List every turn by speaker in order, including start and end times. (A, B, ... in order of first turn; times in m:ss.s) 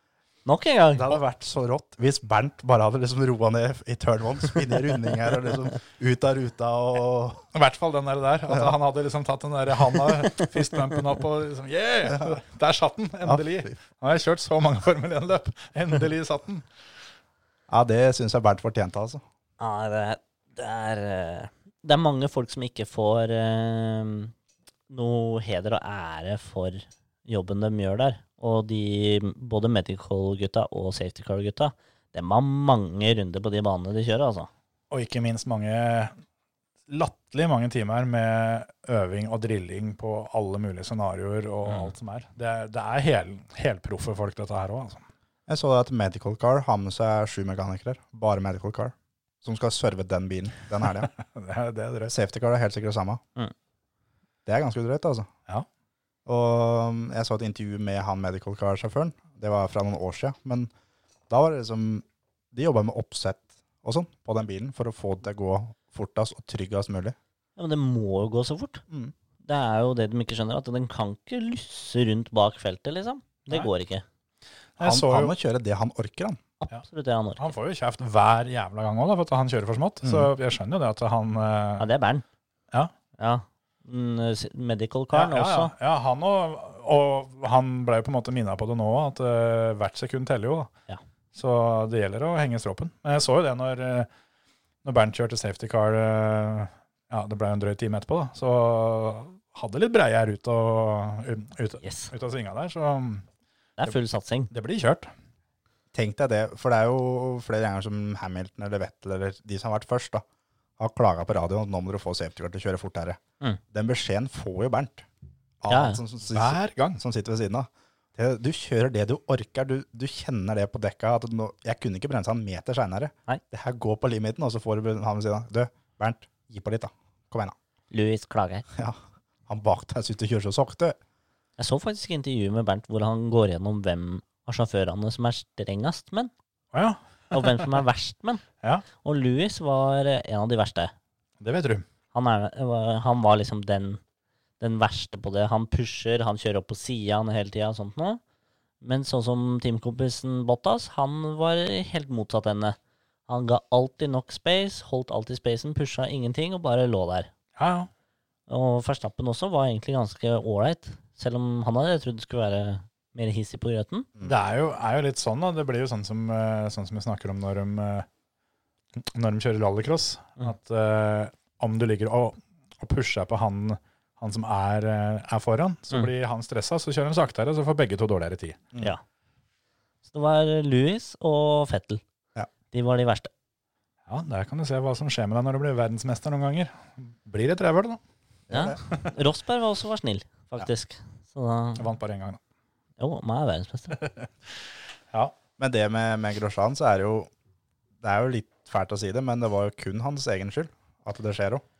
0:00.4-0:01.2 A
0:00.9-0:07.4 B
0:07.5-0:16.6 C
0:12.1-0:12.4 B
0:13.2-0:13.7 B
0:17.7-0:19.2 B
0:19.6-0:24.3 A
0:24.9-0:34.5 A
0:34.9-0:36.1 C
0:36.9-0:45.0 C
0:41.6-0:41.9 A
0:45.5-0:51.1 B
0:50.8-0:52.1 C
0:52.1-0:53.2 B
0:54.4-0:55.3 B
0:56.2-1:00.7 B
1:01.3-1:07.2 B
1:07.6-1:08.8 A
1:09.4-1:14.0 A
1:14.8-1:15.3 C
1:14.8-1:16.4 B
1:16.6-1:17.5 A
1:17.4-1:21.8 C
1:20.0-1:20.3 B
1:21.8-1:22.2 A
1:23.2-1:25.7 A
1:25.1-1:30.7 C
1:31.3-1:34.1 C
1:34.8-1:43.2 C
1:41.8-1:42.1 A
1:43.8-1:44.5 A
1:44.5-1:45.1 C
1:45.9-1:50.2 B
1:50.8-1:53.2 B
1:53.7-1:55.0 B
1:55.6-2:07.5 B
1:55.7-1:56.0 A
1:56.3-1:57.0 C
2:07.9-2:08.6 A
2:08.7-2:11.0 B
2:11.6-2:16.3 A
2:16.7-2:17.6 C
2:17.3-2:18.4 A
2:19.0-2:20.9 A
2:21.4-2:21.8 C
2:22.1-2:24.0 A
2:24.6-2:28.2 A
2:28.8-2:32.8 A
2:33.3-2:37.3 A
2:37.6-2:37.9 C
2:38.5-2:44.1 A
2:44.2-2:48.1 C
2:49.0-2:58.6 C
3:00.0-3:02.0 A
3:02.7-3:03.3 A
3:04.1-3:08.0 C
3:08.5-3:08.8 B
3:08.5-3:11.9 A
3:11.8-3:12.4 C
3:13.0-3:14.0 A
3:14.0-3:14.3 C
3:15.6-3:17.3 B
3:18.0-3:21.6 B